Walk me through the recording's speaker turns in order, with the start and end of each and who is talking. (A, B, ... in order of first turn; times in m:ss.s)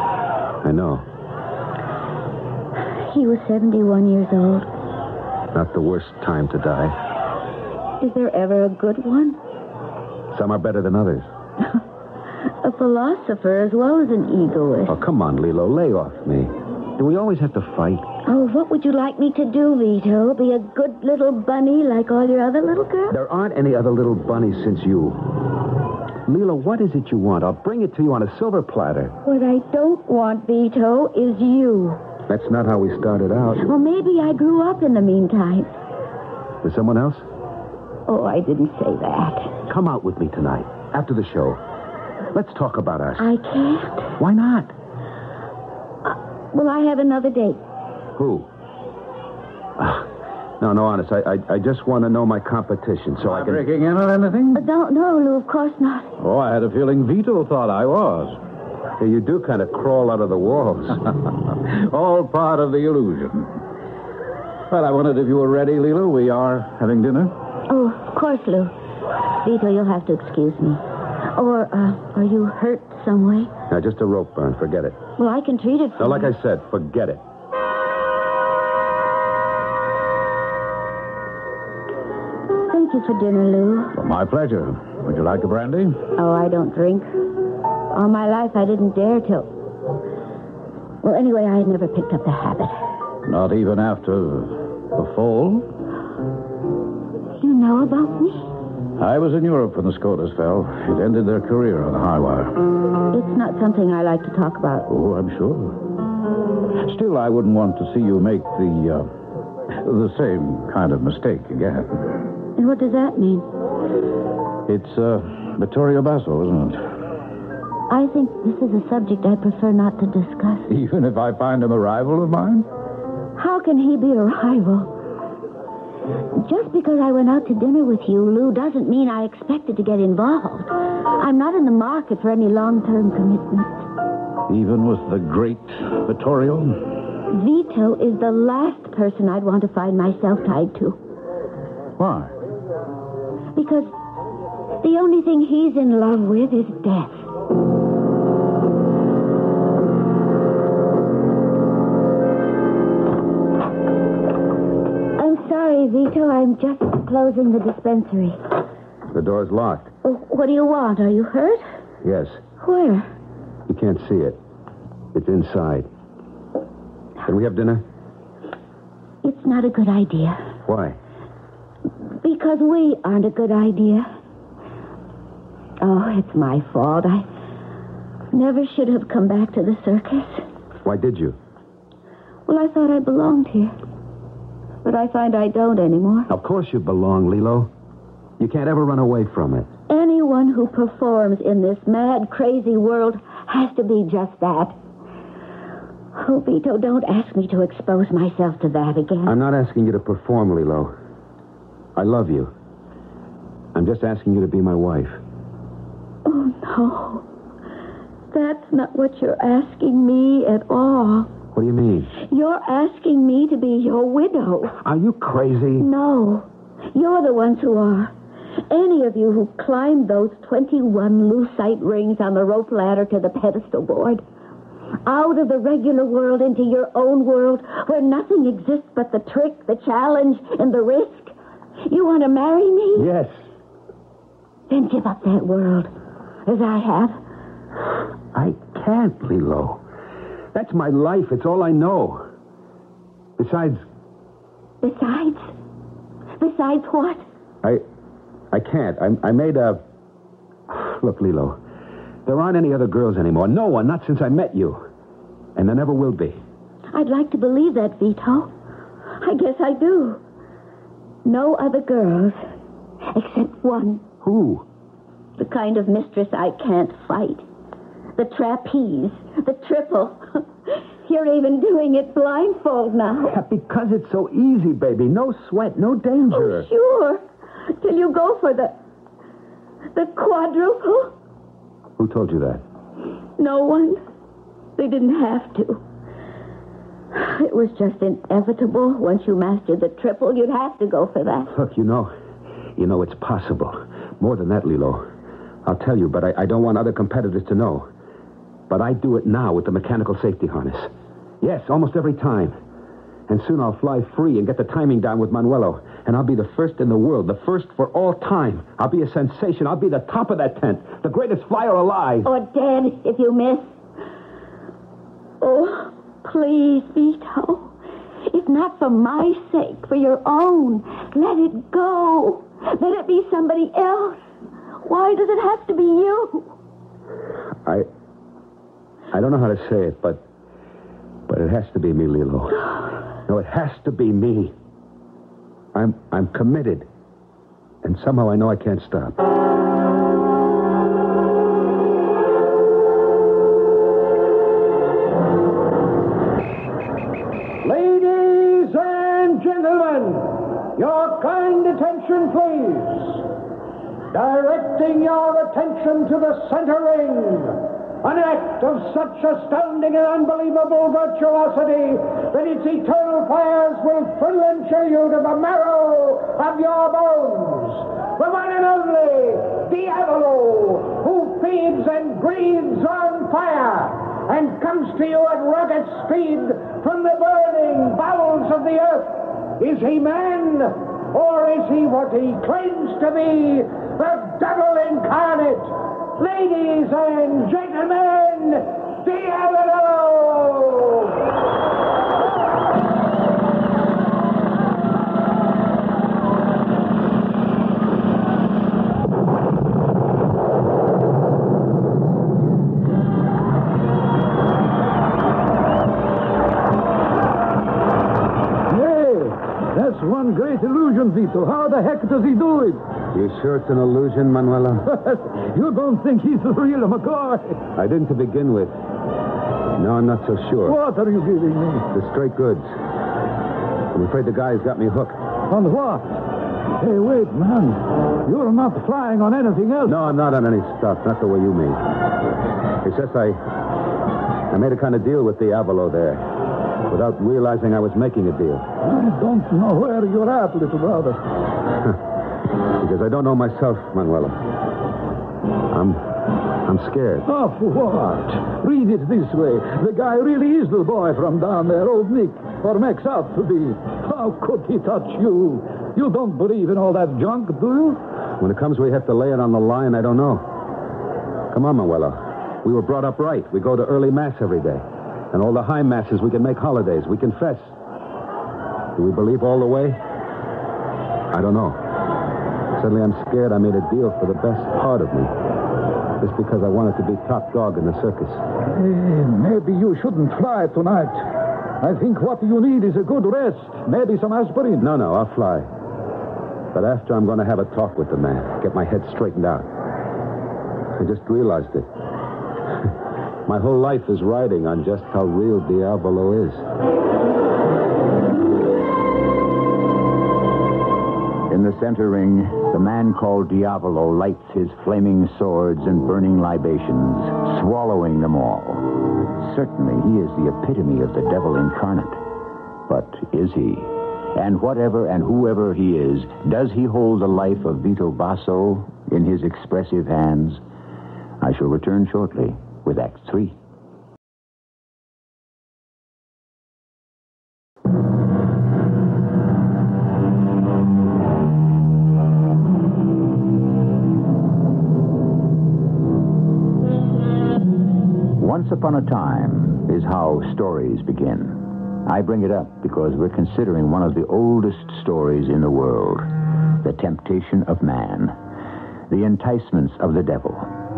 0:00.6-0:01.0 A
0:02.9-0:04.7 B
0:05.5-0:06.9 A
0:08.0-0:09.4 B
0:10.3-0:11.2 A
0:12.6-0:15.0 B
0:14.9-0:18.0 A
0:18.2-0:23.2 B
0:23.1-0:25.2 A
0:26.2-0:29.1 A
0:29.2-0:32.0 B
0:32.3-0:33.6 A
0:33.6-0:35.7 B
0:36.6-0:37.2 A
0:38.1-0:39.6 B
0:39.7-0:41.6 A
0:42.3-0:43.3 A
0:43.2-0:44.2 B
0:44.2-0:44.7 A
0:46.0-0:47.6 B
0:48.2-0:48.5 A
0:49.8-0:50.1 A
0:50.6-0:53.6 A
0:53.2-0:54.6 C
0:54.5-0:56.1 B
0:56.2-0:58.4 C
0:59.0-1:01.0 A
1:01.7-1:03.6 C
1:04.7-1:07.3 C
1:07.7-1:08.7 B
1:09.4-1:10.8 B
1:11.3-1:13.5 B
1:13.7-1:15.0 A
1:15.2-1:16.3 B
1:16.0-1:17.2 A
1:22.7-1:24.0 B
1:23.9-1:26.0 C
1:26.2-1:27.2 B
1:27.9-1:29.5 B
1:31.0-1:32.8 B
1:33.2-1:35.7 C
1:37.4-1:38.5 B
1:39.0-1:42.6 C
1:43.1-1:44.9 B
1:44.9-1:45.8 C
1:46.8-1:49.1 C
1:49.7-1:52.0 C
1:52.6-1:53.4 B
1:54.7-1:56.8 C
1:57.9-2:00.7 B
2:00.7-2:02.6 C
2:03.4-2:04.9 B
2:06.4-2:13.8 B
2:14.5-2:16.8 C
2:17.3-2:21.0 B
2:22.0-2:22.3 C
2:23.6-2:23.9 B
2:24.8-2:27.2 B
2:35.2-2:38.4 B
2:39.1-2:39.9 A
2:40.0-2:41.6 B
2:42.0-2:42.4 A
2:42.6-2:43.1 B
2:43.7-2:44.4 A
2:45.1-2:45.9 A
2:47.2-2:47.8 A
2:49.2-2:50.4 B
2:50.6-2:51.0 A
2:52.2-2:54.1 B
2:55.8-2:57.3 B
2:58.3-3:00.4 B
3:00.8-3:01.4 A
3:02.5-3:03.8 B
3:04.8-3:06.3 B
3:06.3-3:07.7 A
3:08.4-3:09.7 A
3:09.9-3:14.8 B
3:16.1-3:19.3 B
3:19.2-3:20.9 A
3:22.0-3:22.5 A
3:23.7-3:25.2 A
3:26.2-3:27.2 B
3:28.3-3:31.3 B
3:31.5-3:32.1 A
3:32.2-3:34.8 B
3:34.8-3:35.9 A
3:35.8-3:38.1 B
3:38.7-3:44.2 B
3:45.0-3:53.1 B
3:53.0-3:53.4 A
3:54.7-3:55.9 B
3:56.4-3:57.2 B
3:58.3-3:59.8 A
4:00.5-4:02.2 A
4:03.4-4:03.8 A
4:04.8-4:05.5 B
4:06.4-4:07.2 B
4:08.5-4:09.8 A
4:10.7-4:11.6 A
4:12.2-4:14.8 A
4:15.6-4:16.4 A
4:16.9-4:18.5 B
4:19.2-4:20.2 B
4:21.2-4:22.4 B
4:23.1-4:24.0 B
4:24.2-4:24.6 A
4:25.4-4:27.4 B
4:28.2-4:33.4 B
4:33.3-4:36.7 A
4:36.3-4:37.2 B
4:37.8-4:38.7 B
4:39.9-4:41.1 B
4:42.0-4:42.6 A
4:43.4-4:44.0 B
4:44.8-4:45.8 B
4:47.1-4:51.5 B
4:51.5-4:52.1 A
4:52.8-4:55.0 A
4:55.6-4:57.9 A
4:58.7-5:02.5 A
5:03.3-5:12.3 A
5:12.2-5:13.7 B
5:15.4-5:17.7 B
5:18.2-5:24.2 B
5:24.8-5:26.5 B
5:29.1-5:30.2 A
5:31.3-5:32.6 A
5:33.2-5:34.5 A
5:35.7-5:36.9 A
5:37.8-5:39.2 A
5:47.6-5:53.2 D
5:54.1-6:31.1 D
6:48.7-6:52.8 C
6:53.1-6:54.8 A
6:54.9-6:57.6 C
6:57.8-6:58.7 A
6:59.8-7:00.8 A
7:00.6-7:01.9 C
7:01.9-7:02.6 A
7:03.9-7:05.2 A
7:05.5-7:06.0 C
7:06.8-7:10.0 C
7:09.8-7:11.8 A
7:12.8-7:13.4 A
7:14.5-7:16.2 A
7:16.9-7:18.6 A
7:18.8-7:21.2 C
7:22.7-7:24.4 A
7:25.7-7:26.0 A
7:26.6-7:27.3 A
7:27.2-7:38.0 C
7:38.4-7:40.4 A
7:41.5-7:47.7 A
7:49.0-7:50.0 A
7:51.3-7:51.8 A
7:52.8-7:55.3 A
7:56.2-7:58.4 A
7:58.7-8:01.2 C
8:01.8-8:04.9 C
8:04.8-8:05.7 A
8:06.7-8:09.7 A
8:11.0-8:11.9 A
8:13.4-8:16.6 A
8:21.5-8:32.2 E
8:32.9-8:40.6 E
8:41.4-8:43.6 E
8:58.4-9:06.3 E
9:06.8-9:08.4 E
9:09.1-9:10.7 E